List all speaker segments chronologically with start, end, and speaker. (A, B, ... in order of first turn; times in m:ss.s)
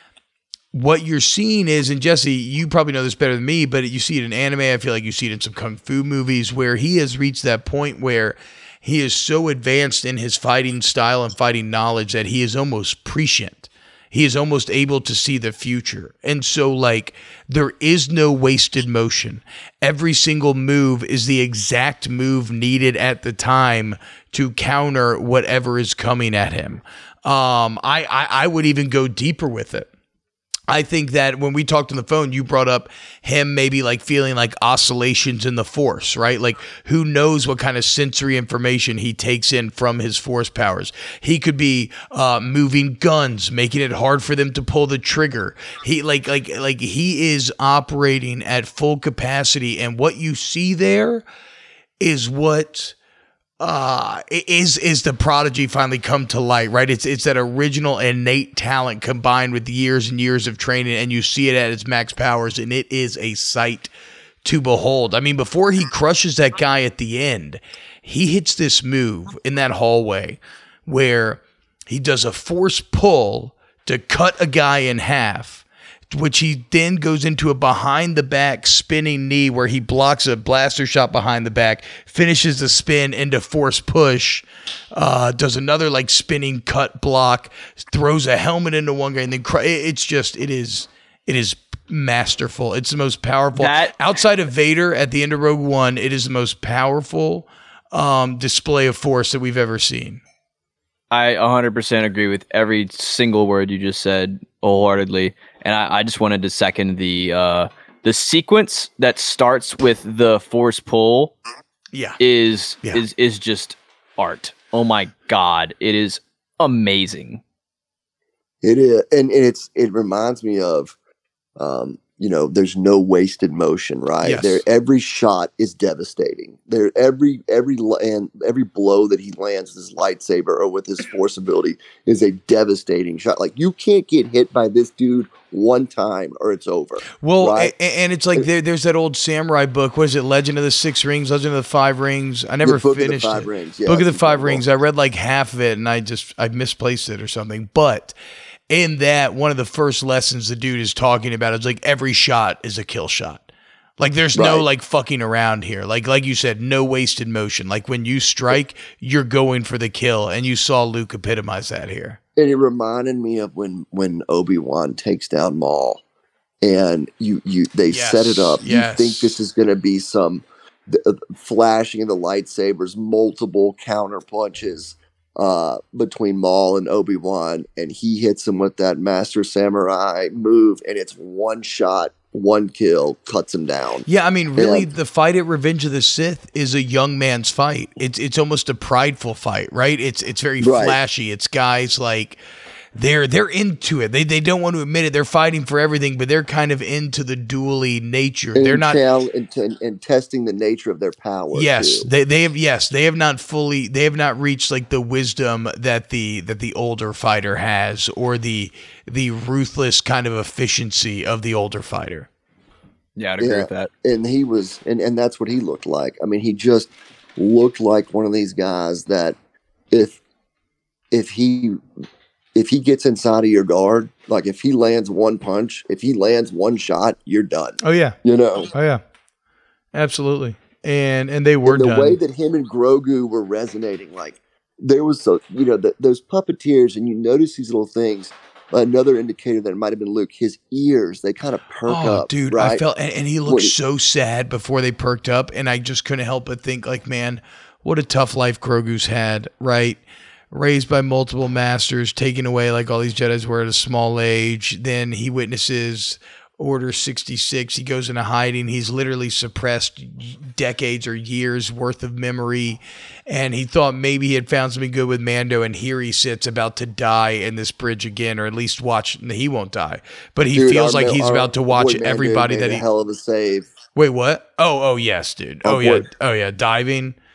0:00.7-0:29.9 A
0:30.7-0:51.2 A
0:52.0-0:53.0 A
0:53.6-1:03.9 A
1:04.4-1:40.2 A
1:33.6-1:34.0 B
1:41.1-1:51.4 B
1:51.9-1:52.2 A
1:52.2-1:57.4 B
1:58.6-2:01.0 C
2:01.6-2:17.7 C
2:04.2-2:04.6 A
2:17.2-2:28.2 A
2:22.6-2:24.6 C
2:28.7-2:33.5 A
2:34.0-2:42.2 A
2:34.3-2:34.7 C
2:42.4-2:46.0 C
2:46.6-3:04.9 C
2:47.9-2:49.4 A
3:04.1-3:12.4 A
3:10.6-3:11.0 C
3:13.0-3:19.0 A
3:18.6-3:22.1 C
3:21.5-3:32.3 A
3:33.2-3:33.9 B
3:33.4-3:39.4 C
3:39.9-3:40.2 C
3:41.1-3:41.8 C
3:42.6-3:48.7 C
3:47.8-3:48.2 A
3:48.7-3:49.0 A
3:49.9-3:52.2 A
3:51.6-4:02.8 C
4:01.8-4:32.8 A
4:03.5-4:03.7 C
4:30.5-4:33.7 C
4:34.0-4:37.2 A
4:35.6-4:36.1 C